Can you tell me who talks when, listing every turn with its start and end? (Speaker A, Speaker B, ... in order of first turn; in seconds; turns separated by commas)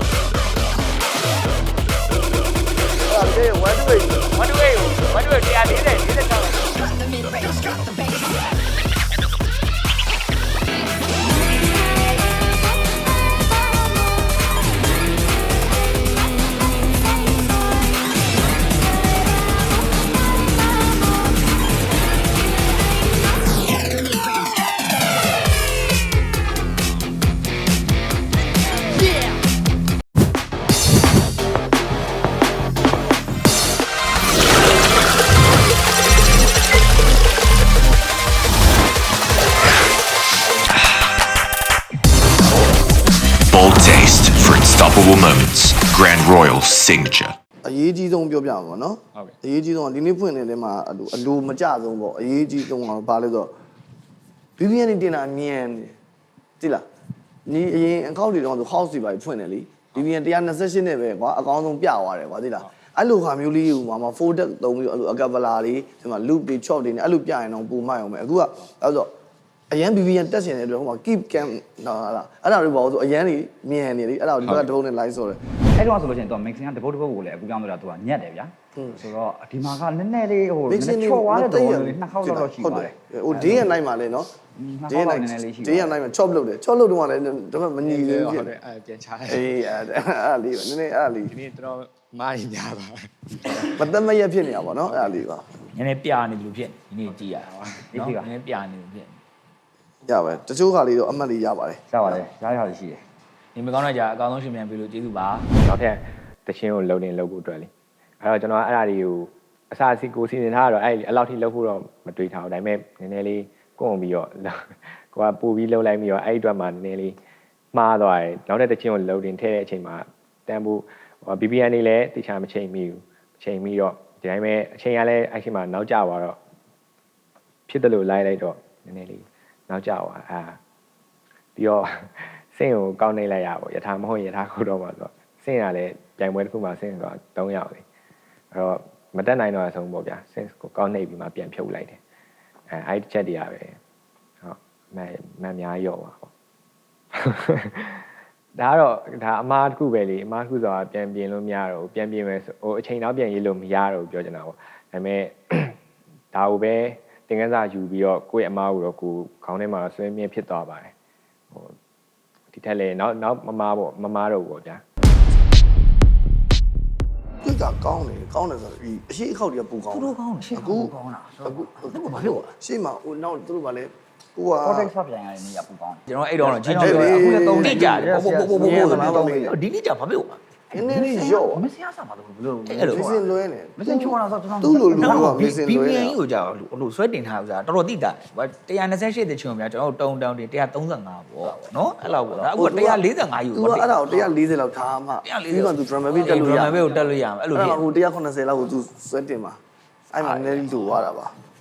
Speaker A: 3.0-4.3, Speaker B: 4.4-6.2, Speaker C: 43.5-47.4, Speaker A: 47.6-53.5, Speaker A: 54.6-55.9, Speaker A: 57.5-69.1, Speaker A: 69.7-75.4, Speaker D: 75.8-83.7, Speaker A: 78.8-79.0, Speaker A: 80.7-84.3, Speaker D: 84.6-85.9, Speaker A: 84.9-88.5, Speaker E: 87.8-89.5, Speaker A: 89.3-91.3, Speaker E: 91.3-93.7, Speaker A: 93.7-95.5, Speaker B: 95.7-99.2, Speaker E: 97.3-97.6, Speaker D: 97.9-98.3, Speaker A: 100.0-102.2, Speaker D: 101.9-103.0, Speaker B: 103.5-105.5, Speaker E: 105.6-107.7, Speaker E: 108.2-117.2, Speaker E: 117.7-126.4, Speaker E: 127.7-130.6, Speaker E: 131.6-137.8, Speaker E: 138.5-142.0, Speaker E: 142.7-143.8, Speaker E: 144.4-146.3, Speaker E: 147.2-148.0, Speaker E: 148.6-155.8, Speaker E: 156.3-160.9, Speaker E: 162.5-164.8, Speaker A: 167.4-170.9, Speaker B: 169.9-172.5, Speaker A: 171.4-174.9, Speaker D: 171.8-172.1, Speaker D: 174.6-179.5, Speaker B: 176.1-180.4, Speaker A: 176.8-179.6, Speaker A: 180.7-181.7, Speaker D: 180.7-183.2, Speaker B: 182.7-183.1, Speaker A: 182.7-186.2, Speaker D: 183.8-185.3, Speaker B: 184.9-194.3, Speaker A: 192.4-196.8, Speaker B: 195.2-197.8, Speaker D: 196.3-197.2, Speaker A: 197.5-199.6, Speaker A: 200.1-201.3, Speaker B: 200.2-201.0